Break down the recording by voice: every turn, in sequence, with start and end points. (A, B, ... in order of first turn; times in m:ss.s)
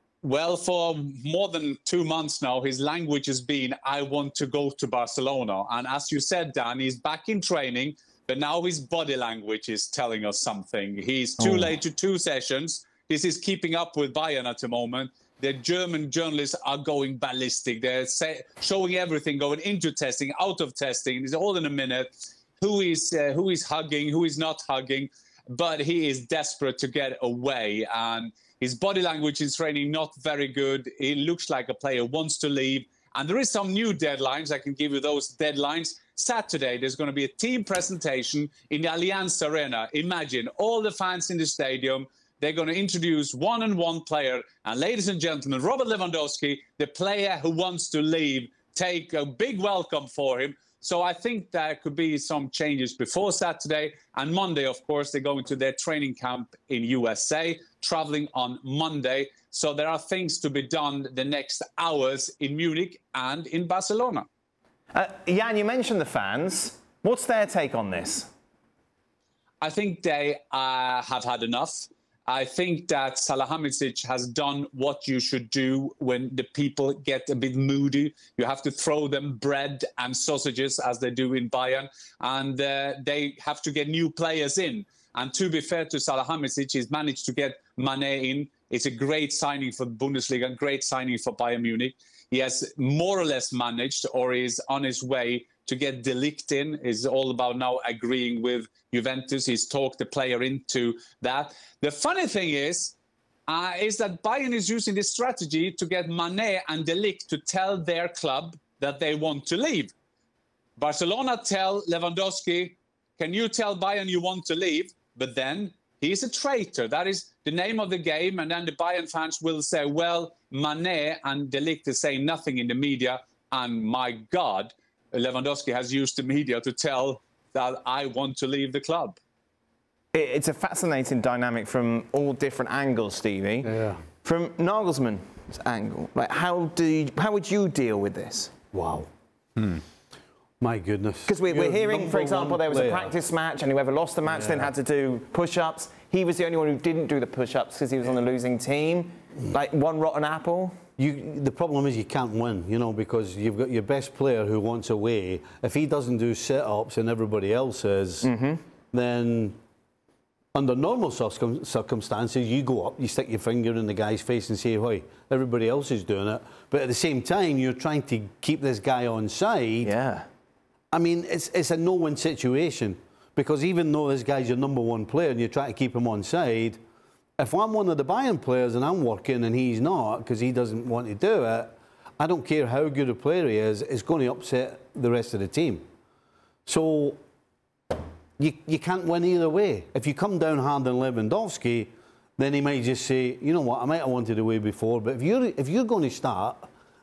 0:00.2-1:04.3 A
1:04.9-1:08.3 B
1:09.6-1:43.0 A
1:43.5-1:49.9 A
1:50.8-2:09.2 A
2:10.1-2:13.7 B
2:13.6-2:14.0 C
2:14.2-2:18.5 B
2:18.7-2:19.1 C
2:20.6-2:23.2 C
2:21.3-2:30.8 B
2:24.3-2:24.7 C
2:31.0-2:38.3 C
2:38.2-2:38.6 B
2:38.9-2:39.6 C
2:40.5-2:49.9 C
2:49.8-2:50.3 B
2:50.9-2:56.8 C
2:57.4-3:05.8 C
3:06.7-3:07.2 C
3:08.4-3:16.7 C